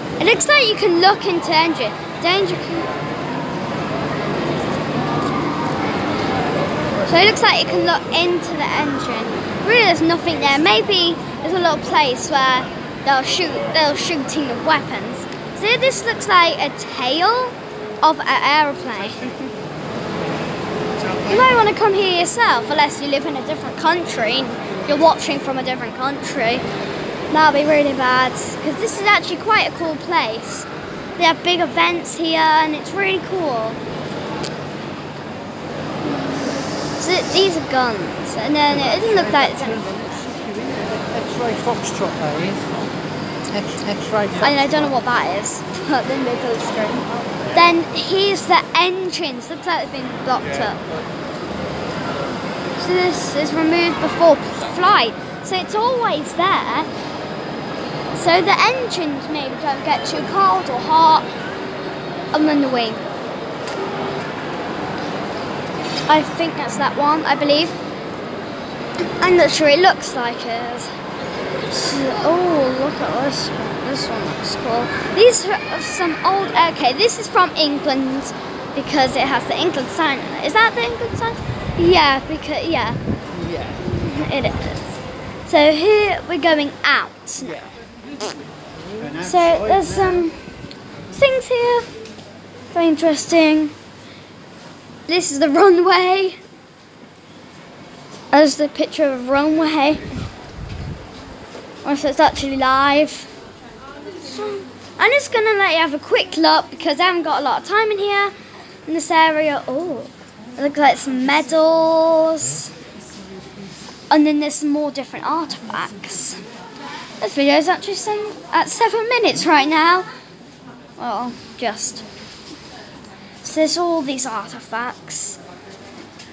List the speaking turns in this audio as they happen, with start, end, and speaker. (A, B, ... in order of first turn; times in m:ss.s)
0:00.2-0:02.9 A
0:07.1-0:19.5 A
0:21.2-0:26.6 A
0:27.3-0:33.8 A
0:37.0-0:39.8 A
0:38.7-0:42.7 B
0:43.5-0:44.9 B
0:44.4-0:50.8 A
0:52.8-0:56.9 A
0:58.2-1:01.3 A
1:02.3-1:03.0 A
1:06.1-1:07.8 A
1:09.2-1:10.9 A
1:11.7-1:23.0 A
1:23.3-1:23.8 B
1:23.8-1:27.5 A
1:27.4-1:27.7 B
1:29.0-1:30.3 B
1:29.2-1:30.4 A
1:31.1-1:31.9 A
1:32.7-1:33.7 A
1:35.1-1:36.4 A
1:38.3-1:40.0 A
1:41.8-1:43.3 A
1:44.2-1:48.3 A
1:48.9-1:52.7 A
1:54.1-1:56.4 A
1:57.2-2:00.1 A
2:01.0-2:02.1 A
2:03.4-2:05.4 A